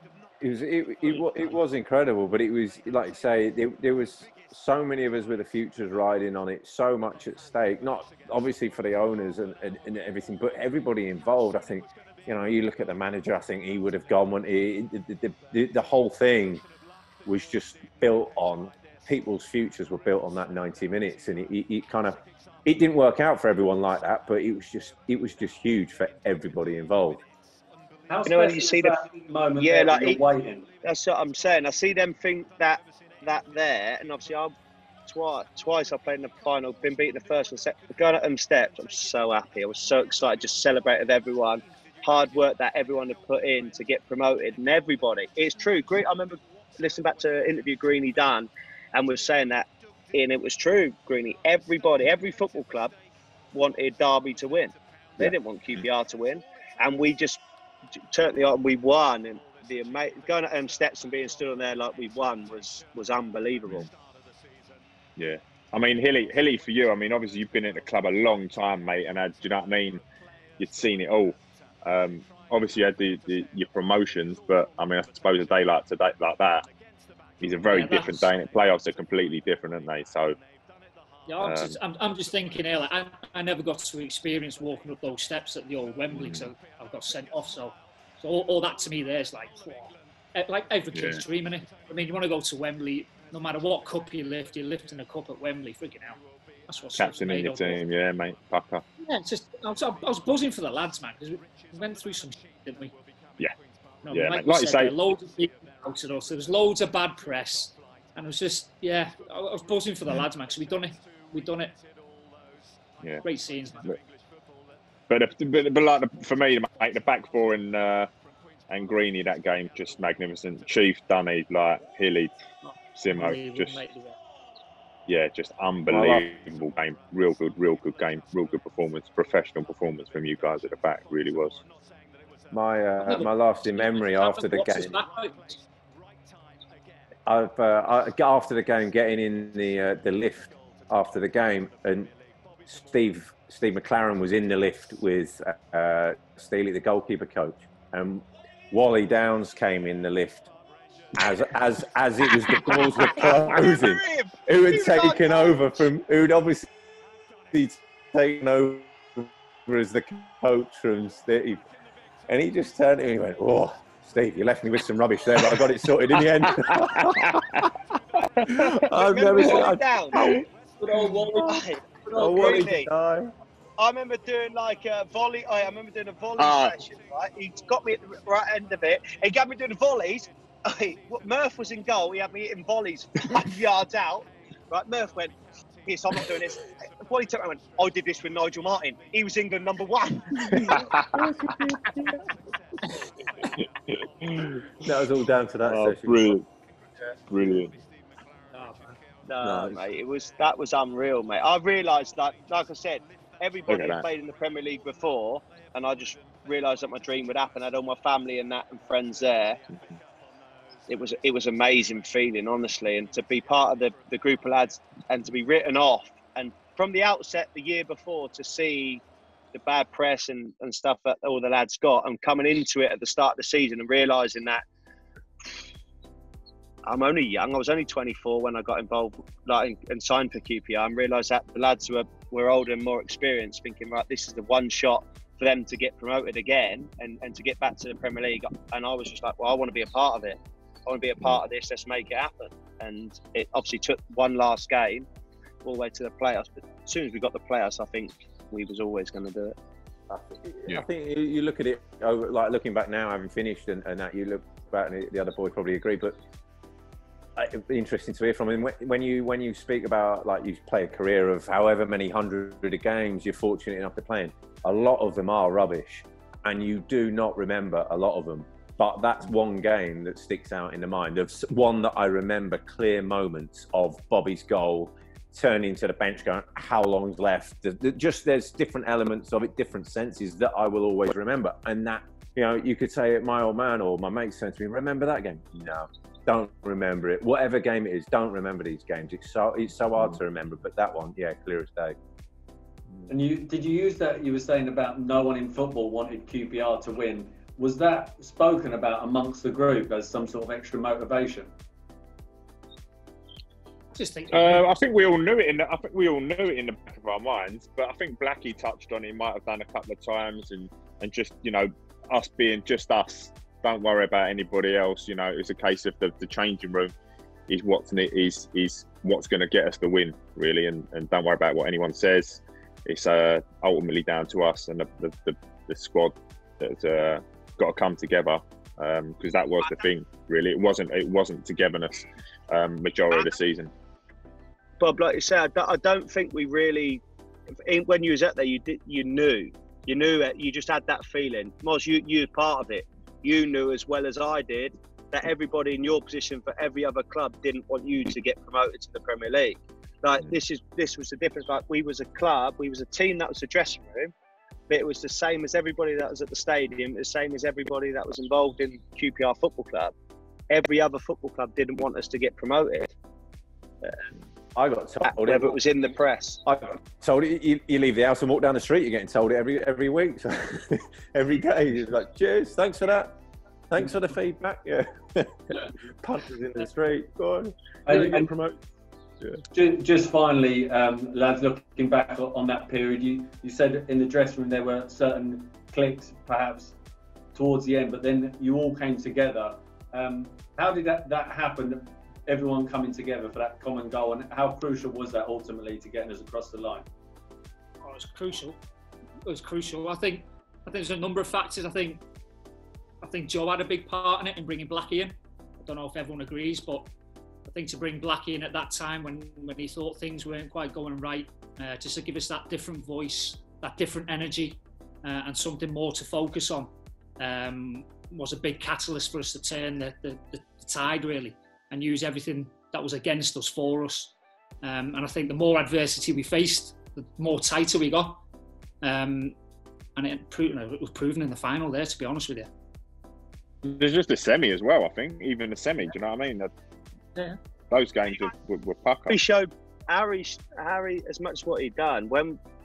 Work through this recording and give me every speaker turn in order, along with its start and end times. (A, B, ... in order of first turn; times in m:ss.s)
0:00.4-0:16.6 A
0:17.2-0:27.2 A
0:28.1-0:30.7 B
0:28.2-0:29.0 C
0:29.6-0:30.2 C
0:30.8-0:34.5 C
0:35.1-0:52.9 C
0:53.5-0:57.4 C
0:58.0-1:03.9 C
1:05.2-1:10.0 D
1:10.6-1:16.6 D
1:17.4-1:20.4 D
1:17.7-1:18.3 E
1:21.3-1:37.8 E
1:21.4-1:21.8 D
1:26.1-1:26.5 D
1:30.9-1:31.2 D
1:37.0-1:38.8 D
1:39.0-1:42.9 E
1:44.0-1:51.7 E
1:44.1-1:44.9 D
1:53.2-1:54.0 E
1:55.1-1:58.1 D
1:58.7-2:02.3 D
2:02.6-2:04.2 E
2:03.0-2:03.8 D
2:05.1-2:11.6 D
2:05.9-2:06.2 A
2:12.5-2:15.0 A
2:13.0-2:15.6 E
2:17.2-2:22.1 A
2:22.7-2:30.5 A
2:31.1-2:36.7 A
2:32.3-2:34.4 D
2:34.8-2:35.7 C
2:37.5-2:41.6 A
2:42.3-2:47.7 A
2:46.2-2:47.6 D
2:48.4-2:48.7 D
2:48.5-2:50.4 A
2:48.9-2:50.4 C
2:50.2-2:50.4 D
2:50.8-2:52.6 E
2:51.3-2:53.3 A
2:51.4-2:52.9 C
2:53.8-3:10.8 C
2:56.4-2:56.8 D
3:10.5-3:12.2 A
3:10.6-3:11.3 D
3:12.8-3:13.5 E
3:13.6-3:14.7 D
3:14.8-3:16.4 A
3:15.6-3:16.4 D
3:17.0-3:17.6 A
3:17.3-3:17.7 D
3:18.5-3:19.0 E
3:19.3-3:29.6 C
3:19.4-3:19.8 A
3:23.7-3:24.0 D
3:30.9-3:39.0 C
3:39.5-3:44.6 C
3:46.8-4:05.1 C
4:05.6-4:09.5 C
4:10.1-4:16.2 A
4:17.4-4:52.0 A
4:53.1-5:01.5 B
5:03.9-5:04.7 E
5:04.3-5:16.9 D
5:17.5-5:33.7 D
5:34.8-5:37.0 C
5:37.6-5:54.1 C
5:54.7-5:59.9 C
6:00.5-6:02.9 C
6:04.5-6:05.6 A
6:05.0-6:06.4 C
6:06.4-6:13.1 A
6:13.7-6:18.6 A
6:17.8-6:18.3 B
6:19.4-6:26.7 B
6:27.3-6:36.9 B
6:37.8-6:38.6 E
6:39.2-6:42.0 E
6:43.0-6:46.9 E
6:47.4-7:08.2 E
7:08.8-7:09.4 E
7:10.0-7:12.5 E
7:13.6-7:16.5 D
7:17.7-7:19.2 D
7:19.1-7:22.4 C